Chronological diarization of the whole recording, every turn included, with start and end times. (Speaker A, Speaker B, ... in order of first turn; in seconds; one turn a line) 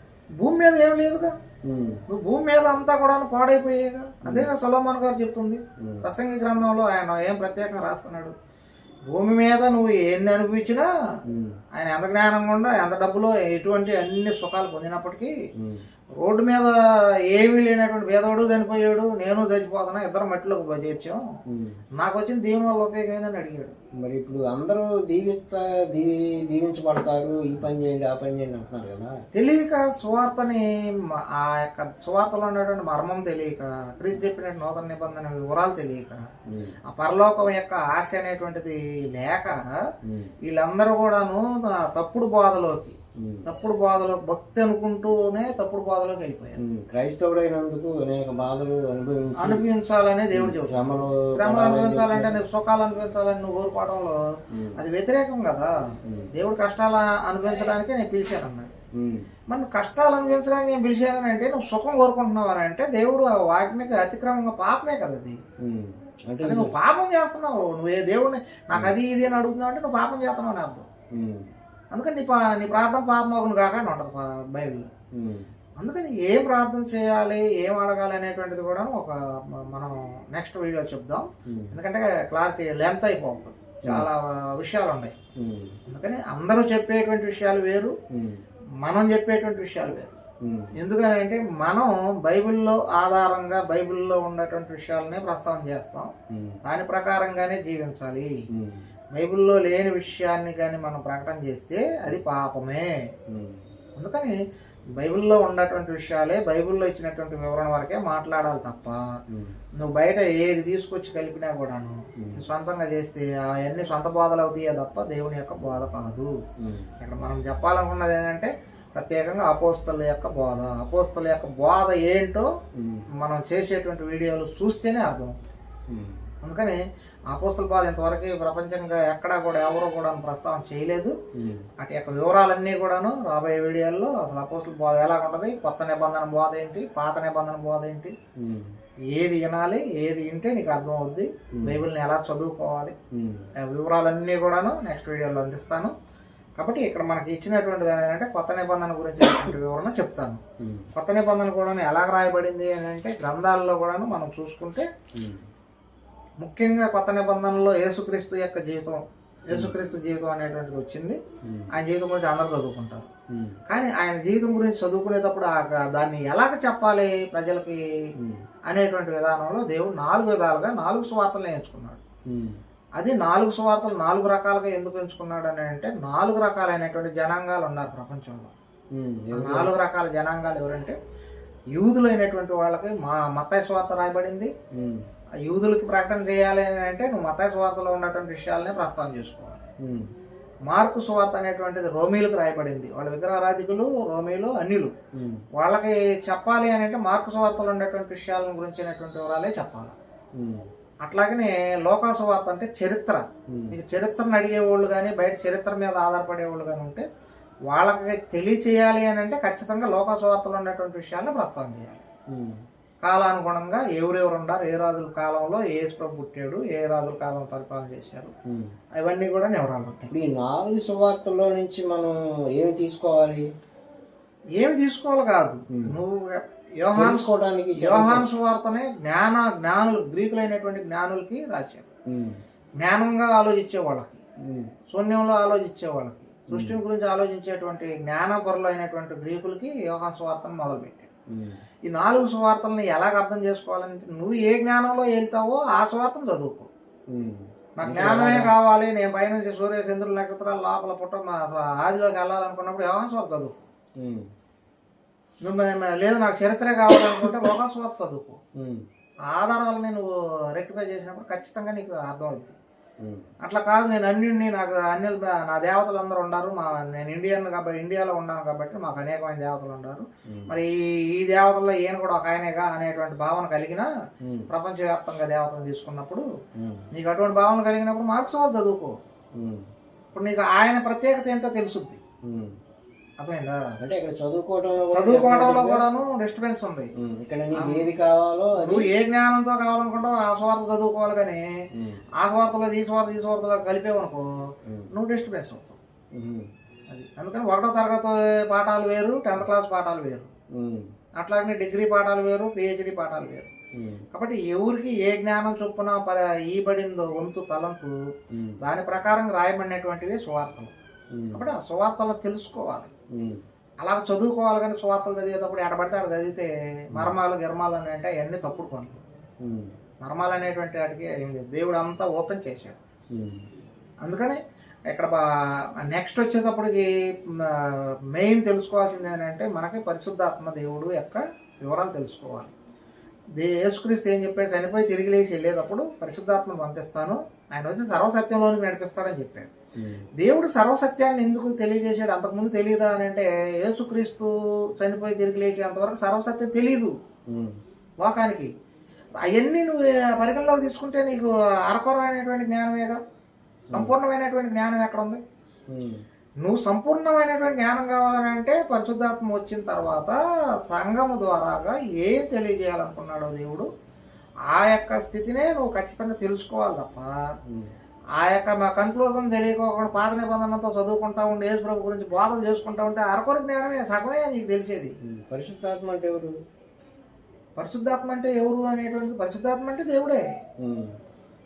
Speaker A: 0.4-1.4
Speaker B: 1.6-2.0
Speaker A: 2.1-8.3
Speaker B: 4.2-4.5
Speaker B: 5.8-6.1
Speaker A: 9.1-10.9
Speaker B: 11.3-11.6
Speaker A: 11.7-15.3
Speaker B: 15.6-15.9
Speaker A: 16.2-16.8
Speaker A: 17.3-21.3
Speaker B: 21.5-21.8
Speaker A: 22.0-23.8
Speaker B: 24.0-29.2
Speaker A: 29.3-36.3
Speaker B: 36.5-36.8
Speaker A: 36.9-39.9
Speaker B: 40.0-40.3
Speaker A: 40.4-46.6
Speaker B: 43.2-43.5
Speaker B: 46.6-49.7
Speaker A: 49.4-54.2
Speaker B: 50.3-52.4
Speaker B: 54.5-54.8
Speaker A: 54.8-55.7
Speaker A: 56.3-58.7
Speaker B: 58.9-59.3
Speaker A: 59.5-65.4
Speaker B: 65.6-66.8
Speaker A: 66.4-70.9
Speaker B: 71.1-71.5
Speaker A: 71.9-74.9
Speaker B: 75.1-75.5
Speaker A: 75.8-85.1
Speaker B: 81.5-81.8
Speaker B: 83.8-84.1
Speaker B: 85.4-85.8
Speaker A: 85.9-87.9
Speaker B: 88.1-88.4
Speaker A: 88.8-90.2
Speaker B: 90.4-90.8
Speaker A: 90.8-96.1
Speaker B: 96.3-96.6
Speaker A: 96.6-98.3
Speaker B: 98.5-98.9
Speaker A: 99.2-103.0
Speaker B: 103.3-103.7
Speaker A: 104.0-104.4
Speaker A: 105.0-109.0
Speaker B: 109.3-109.6
Speaker A: 109.8-116.4
Speaker B: 112.2-112.4
Speaker B: 116.6-116.9
Speaker A: 117.0-122.5
Speaker B: 122.8-123.1
Speaker A: 123.2-125.3
Speaker B: 125.9-126.3
Speaker A: 126.4-126.8
Speaker A: 127.3-131.2
Speaker B: 131.3-131.7
Speaker A: 131.8-138.2
Speaker B: 138.4-138.8
Speaker A: 139.1-142.9
Speaker B: 141.5-141.8
Speaker B: 143.1-143.5
Speaker A: 143.6-145.9
Speaker A: 146.6-150.4
Speaker B: 150.6-150.9
Speaker A: 150.9-154.9
Speaker B: 155.2-155.5
Speaker A: 156.4-161.2
Speaker B: 161.4-161.7
Speaker A: 161.7-163.1
Speaker B: 163.3-163.6
Speaker A: 163.7-167.8
Speaker B: 168.2-168.4
Speaker A: 168.7-172.0
Speaker B: 172.3-172.6
Speaker A: 173.0-178.5
Speaker B: 178.9-179.7
Speaker A: 179.3-181.0
Speaker A: 181.8-184.5
Speaker B: 184.7-185.1
Speaker A: 185.4-189.7
Speaker B: 189.8-190.1
Speaker A: 190.7-194.9
Speaker B: 195.1-195.4
Speaker A: 195.5-199.9
Speaker B: 200.3-200.7
Speaker A: 201.0-207.1
Speaker B: 203.5-203.8
Speaker A: 207.7-212.1
Speaker B: 212.3-212.6
Speaker A: 213.0-218.3
Speaker B: 218.5-218.8
Speaker A: 219.0-220.1
Speaker B: 220.1-223.5
Speaker A: 224.6-231.9
Speaker B: 225.7-226.0
Speaker B: 226.9-228.3
Speaker B: 232.1-232.4
Speaker A: 232.8-234.2
Speaker B: 234.4-234.7
Speaker A: 234.9-241.1
Speaker B: 236.5-236.8
Speaker B: 241.3-241.6
Speaker A: 241.8-246.7
Speaker B: 247.1-248.5
Speaker A: 247.8-253.6
Speaker B: 254.0-254.3
Speaker A: 255.4-258.4
Speaker B: 258.6-258.9
Speaker A: 259.3-262.6
Speaker B: 263.0-263.3
Speaker A: 263.4-273.9
Speaker B: 270.3-270.6
Speaker B: 274.2-274.5
Speaker A: 274.5-276.3
Speaker B: 276.6-276.9
Speaker A: 276.9-279.0
Speaker B: 279.4-279.7
Speaker A: 280.1-282.0
Speaker B: 282.2-282.6
Speaker A: 283.2-283.8
Speaker B: 283.8-285.9
Speaker A: 284.9-286.9
Speaker B: 287.0-288.9
Speaker A: 287.6-287.9
Speaker A: 288.6-291.4
Speaker B: 291.7-292.0
Speaker A: 292.2-294.2
Speaker A: 294.9-295.8
Speaker B: 296.1-296.5
Speaker A: 296.9-300.3
Speaker B: 300.5-300.9
Speaker A: 301.2-303.5
Speaker B: 303.7-304.1
Speaker A: 304.1-308.0
Speaker B: 308.3-308.6
Speaker A: 308.6-310.7
Speaker B: 311.1-311.4
Speaker A: 311.3-312.9
Speaker B: 313.1-313.4
Speaker A: 313.8-319.0
Speaker B: 319.4-319.7
Speaker A: 320.0-322.8
Speaker B: 323.1-323.5
Speaker A: 324.0-325.2
Speaker A: 325.8-332.5
Speaker A: 333.4-339.5
Speaker B: 339.8-340.1
Speaker A: 340.2-346.9
Speaker B: 347.3-347.6
Speaker A: 348.0-348.5
Speaker A: 349.2-353.0
Speaker A: 353.7-355.2
Speaker B: 355.7-356.0
Speaker A: 356.4-363.7
Speaker A: 364.5-367.1
Speaker B: 367.4-367.7
Speaker A: 368.2-374.9
Speaker B: 375.0-376.4
Speaker A: 377.6-380.3
Speaker B: 380.6-381.0